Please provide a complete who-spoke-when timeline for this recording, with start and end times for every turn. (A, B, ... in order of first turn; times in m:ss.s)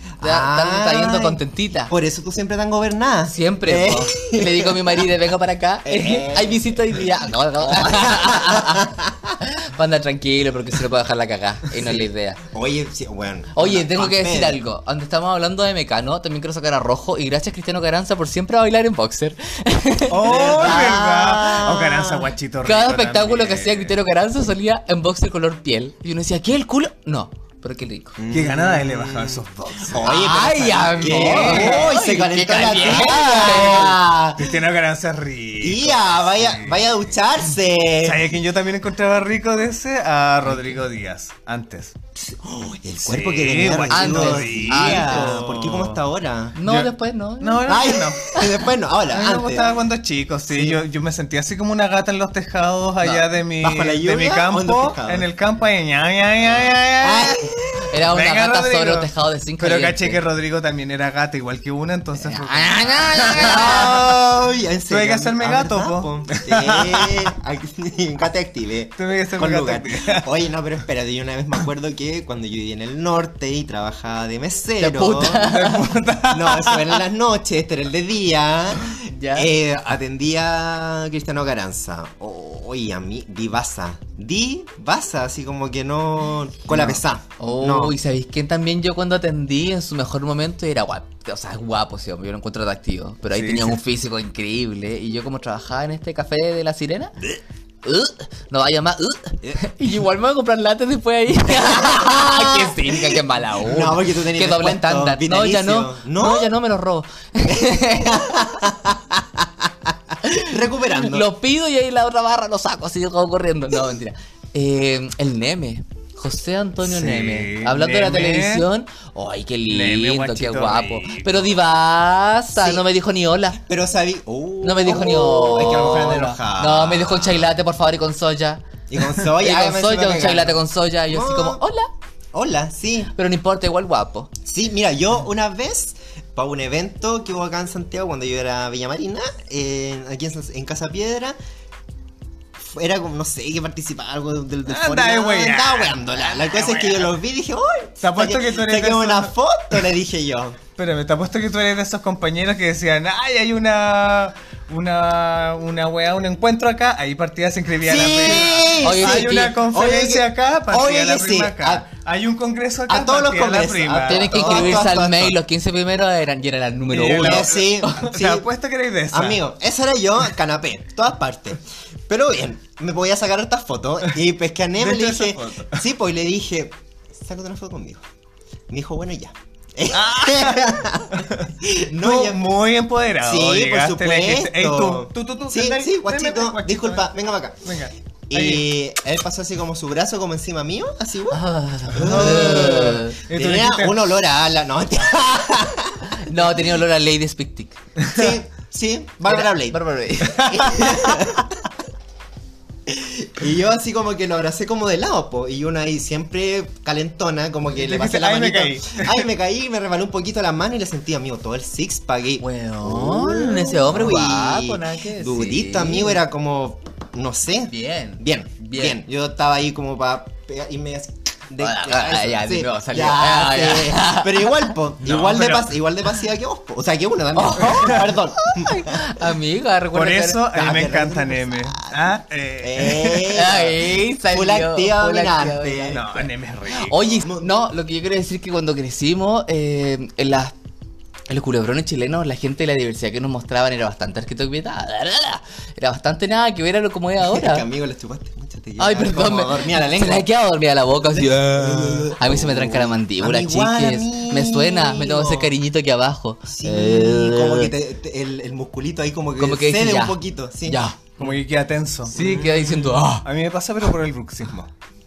0:00.2-0:05.1 A
0:00.2-0:01.9 B
0:03.3-0:12.4 B
0:05.8-0:09.4 A
0:11.8-0:14.6 A
0:13.5-0:21.8 B
0:20.1-0:24.0 C
0:20.2-0:22.3 A
0:22.6-0:28.2 B
0:28.2-0:34.6 A
0:28.3-0:30.1 C
0:30.0-0:34.0 B
0:30.7-0:32.0 C
0:32.7-0:36.8 C
0:35.6-0:38.3 A
0:38.0-0:42.0 C
0:42.2-0:46.6 A
0:43.0-0:46.0 C
0:43.9-0:45.4 B
0:46.6-0:48.5 B
0:46.6-0:48.4 C
0:47.6-0:49.8 A
0:49.1-1:04.1 C
0:50.5-0:50.8 A
0:53.6-0:55.3 A
0:56.6-0:57.8 A
0:57.9-1:00.2 B
1:02.2-1:04.0 B
1:03.3-1:15.5 A
1:04.9-1:07.3 C
1:09.0-1:10.3 C
1:14.8-1:15.9 B
1:15.2-1:17.0 C
1:16.3-1:28.0 A
1:18.8-1:19.5 B
1:26.7-1:27.0 C
1:27.4-1:37.2 B
1:33.3-1:33.8 C
1:37.8-1:48.3 B
1:41.5-1:46.5 A
1:47.5-1:51.3 A
1:50.2-2:03.6 B
1:56.8-1:58.7 C
1:59.7-2:01.6 C
2:02.6-2:02.8 A
2:03.6-2:07.5 A
2:04.6-2:11.9 B
2:08.9-2:10.6 A
2:11.1-2:11.6 A
2:12.3-2:13.1 A
2:13.1-2:14.3 B
2:14.4-2:21.4 A
2:22.6-2:30.6 A
2:24.7-2:27.1 C
2:28.0-2:29.3 C
2:30.8-2:45.0 C
2:37.8-2:41.8 A
2:38.8-2:39.6 B
2:42.9-2:45.3 A
2:44.0-2:48.1 B
2:46.9-2:49.4 C
2:47.1-2:48.5 A
2:49.1-2:58.0 A
2:54.8-2:55.8 C
2:58.7-3:02.4 A
2:59.9-3:08.6 C
3:03.2-3:07.6 A
3:08.3-3:11.4 A
3:11.3-3:13.2 B
3:11.9-3:16.5 A
3:12.0-3:14.0 C
3:16.1-3:17.8 B
3:18.0-3:18.3 C
3:18.1-3:21.6 A
3:19.3-3:21.2 B
3:20.4-3:21.2 C
3:22.9-3:49.1 A
3:27.7-3:29.2 C
3:32.4-3:36.2 B
3:37.7-3:39.0 B
3:41.6-3:44.7 B
3:45.0-3:45.7 C
3:47.4-3:50.4 B
3:47.7-3:48.0 C
3:49.9-3:53.6 C
3:50.5-3:52.0 A
3:52.6-3:56.2 A
3:53.3-4:00.5 B
3:55.9-3:57.2 C
3:57.2-3:57.5 A
4:01.3-4:07.7 B
4:07.2-4:10.3 A
4:08.8-4:17.7 B
4:11.1-4:15.5 A
4:16.5-4:20.8 A
4:19.4-4:21.3 B
4:21.2-4:22.2 C
4:22.1-4:23.2 B
4:22.1-4:23.0 A
4:23.1-4:24.7 C